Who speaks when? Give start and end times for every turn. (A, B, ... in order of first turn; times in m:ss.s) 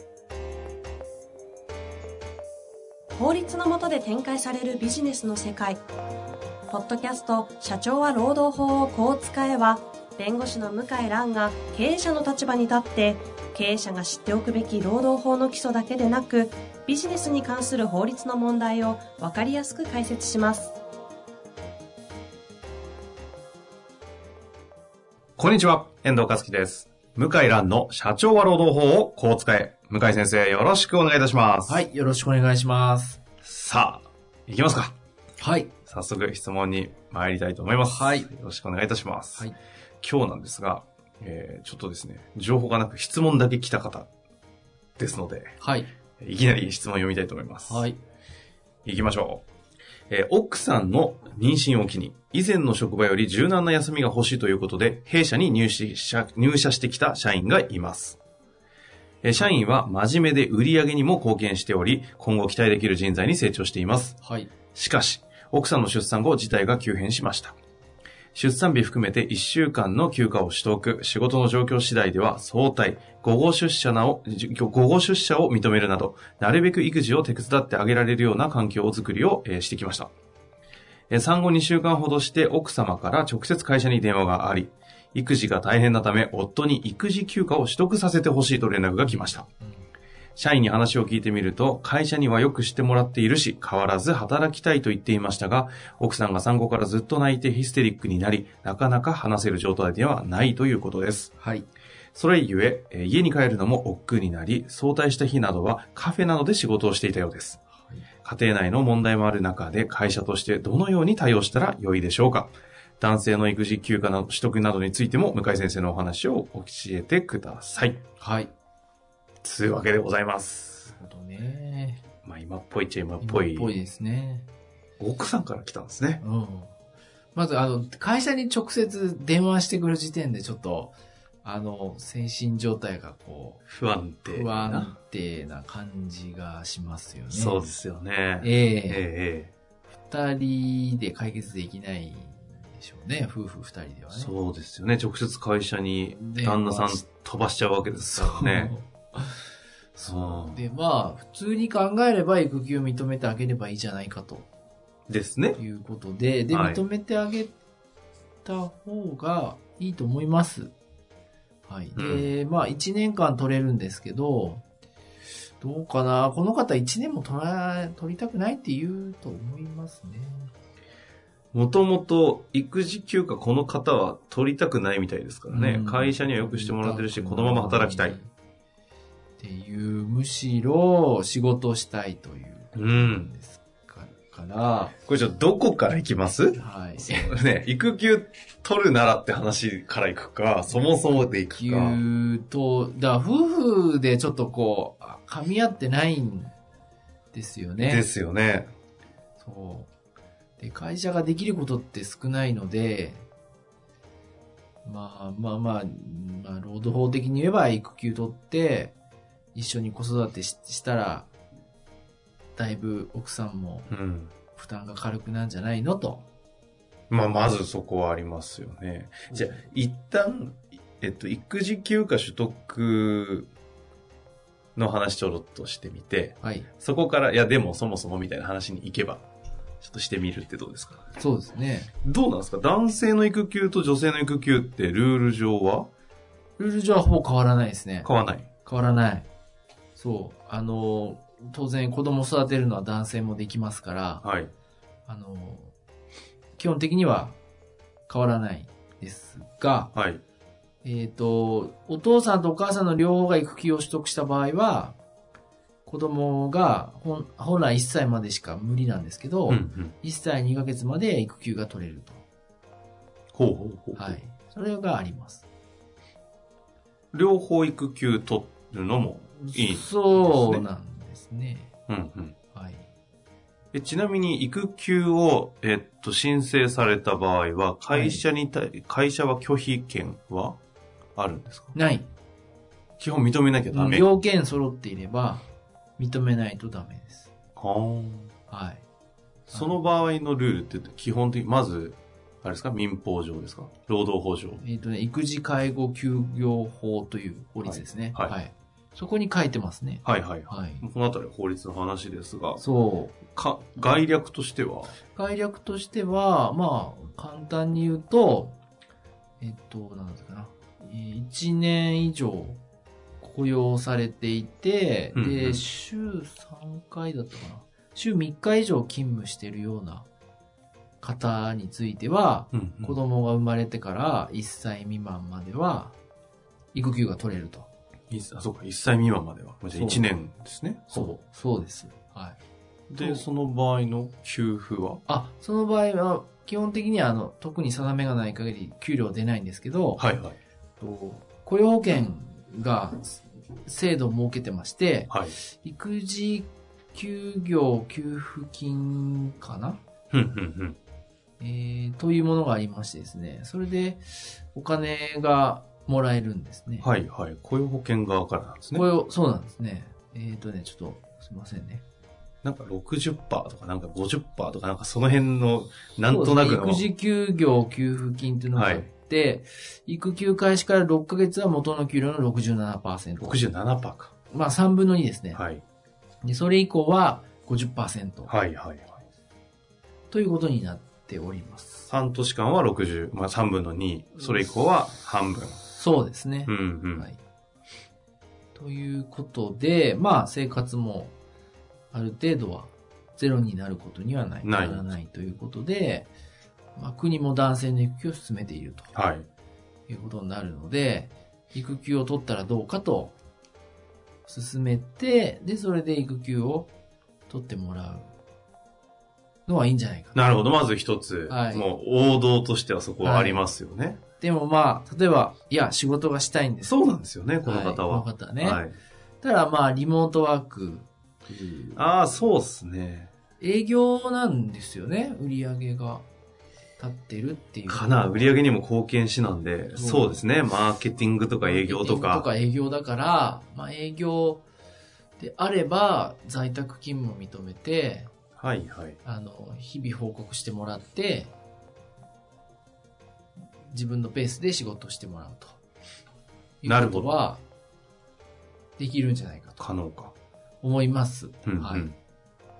0:03.2-0:05.8 A
0:06.7-0:20.8 A
0:25.4-0:31.8 B
0:31.7-0:33.2 C
0:33.4-0:34.9 B
0:35.4-0:35.7 C
0:35.9-0:39.5 B
0:37.8-0:38.3 C
0:40.0-0:44.1 B
0:45.0-0:45.6 B
0:45.6-0:45.9 C
0:46.2-0:47.9 B
0:47.7-0:48.0 C
0:48.8-0:49.4 B
0:50.1-0:58.2 B
0:59.2-1:04.2 B
1:04.2-1:04.5 C
1:04.7-1:07.6 B
1:08.4-1:20.1 B
1:21.1-1:29.5 B
1:29.1-1:29.9 C
1:30.4-1:41.3 B
1:41.4-1:41.7 C
1:42.1-1:47.6 B
1:48.2-1:58.0 B
1:58.2-1:58.5 C
1:59.4-2:00.9 B
2:00.9-2:02.0 C
2:02.2-2:03.8 B
2:03.2-2:04.5 C
2:05.0-2:06.2 B
2:06.2-2:06.7 C
2:07.4-2:13.6 C
2:13.7-2:14.9 B
2:14.2-2:17.6 C
2:17.3-2:19.5 B
2:18.4-2:19.0 C
2:20.0-2:24.3 C
2:24.1-2:28.8 B
2:26.1-2:27.1 C
2:28.1-2:29.4 C
2:30.0-2:30.6 B
2:30.0-2:34.5 C
2:35.1-2:35.6 B
2:35.6-2:37.6 C
2:36.5-2:36.8 B
2:38.4-2:40.7 C
2:41.7-2:44.6 C
2:42.0-2:42.3 B
2:45.6-2:50.5 C
2:51.5-2:58.2 B
2:55.5-2:58.3 C
2:59.4-3:05.0 C
3:02.8-3:03.3 B
3:05.0-3:12.0 B
3:06.5-3:07.3 C
3:11.5-3:16.6 C
3:17.3-3:18.0 C
3:17.8-3:18.7 B
3:19.4-3:19.9 C
3:20.6-3:23.3 C
3:24.8-3:28.9 C
3:29.5-3:31.3 C
3:32.6-3:33.9 C
3:33.9-3:34.3 B
3:34.5-3:36.3 C
3:37.1-3:43.5 B
3:39.3-3:39.6 C
3:44.8-3:49.2 B
3:46.4-3:46.7 C
3:49.8-3:51.0 B
3:51.2-3:51.9 C
3:52.0-3:55.9 B
3:56.6-3:59.3 C
3:58.0-3:58.5 B
4:00.0-4:04.2 C
4:04.2-4:04.5 B
4:05.1-4:05.7 C
4:06.6-4:07.4 C
4:08.1-4:09.9 C
4:09.9-4:10.2 B
4:10.8-4:15.0 C
4:15.8-4:22.2 C
4:19.5-4:20.0 B
4:23.3-4:24.2 B
4:24.0-4:25.4 C
4:27.1-4:30.7 B
4:29.4-4:31.7 C
4:31.9-4:32.4 B
4:32.5-4:32.9 C
4:33.7-4:40.6 B
4:37.9-4:38.2 C
4:41.2-4:41.8 B
4:41.8-4:42.1 C
4:43.0-4:44.1 B
4:43.7-4:47.3 C
4:47.6-4:48.3 B
4:48.5-4:48.8 C
4:49.5-4:54.6 B
4:49.5-4:49.8 C
4:54.6-5:00.8 C
4:57.6-4:58.4 B
5:00.0-5:02.6 B
5:02.6-5:03.2 C
5:03.3-5:05.0 B
5:05.1-5:08.6 C
5:09.4-5:12.6 C
5:13.2-5:20.1 C
5:15.1-5:15.6 B
5:21.0-5:26.0 C
5:22.5-5:23.0 B
5:26.7-5:27.7 C
5:28.1-5:31.1 B
5:29.7-5:30.1 C
5:30.9-5:32.4 C
5:32.9-5:35.0 B
5:33.0-5:33.3 C
5:35.1-5:40.1 C
5:40.0-5:40.4 B
5:40.8-5:49.8 C
5:45.1-5:45.4 B
5:50.1-5:50.8 B
5:51.4-5:56.9 C
5:56.8-5:58.8 B
5:58.7-6:01.8 C
6:02.4-6:06.8 B
6:06.1-6:13.4 C
6:08.5-6:08.9 B
6:13.2-6:14.1 B
6:14.3-6:15.4 C
6:15.3-6:15.6 B
6:16.2-6:18.3 C
6:18.3-6:19.0 B
6:20.1-6:21.9 C
6:21.9-6:25.6 B
6:25.6-6:27.2 C
6:26.5-6:27.1 B
6:28.6-6:31.2 C
6:31.9-6:36.1 C
6:34.4-6:34.9 B
6:36.8-6:38.9 C
6:38.9-6:39.3 B
6:39.9-6:43.2 C
6:44.3-6:46.7 C
6:47.3-6:48.1 C
6:49.5-6:50.2 C
6:50.2-6:54.0 B
6:51.3-6:51.7 C
6:53.0-6:53.5 C
6:54.2-6:56.8 C
6:56.6-6:58.8 B
6:57.4-6:58.6 C
6:59.2-7:01.8 C
7:01.8-7:03.1 B
7:03.4-7:06.1 C
7:06.8-7:08.3 C
7:07.7-7:12.3 B
7:09.7-7:10.2 C
7:11.4-7:14.5 C
7:15.2-7:18.1 C
7:18.4-7:19.0 B
7:19.0-7:21.3 C
7:23.7-7:25.6 C
7:26.6-7:27.4 C
7:26.6-7:27.1 B
7:28.8-7:29.6 C
7:29.6-7:30.1 B
7:30.6-7:31.9 C
7:31.5-7:32.0 B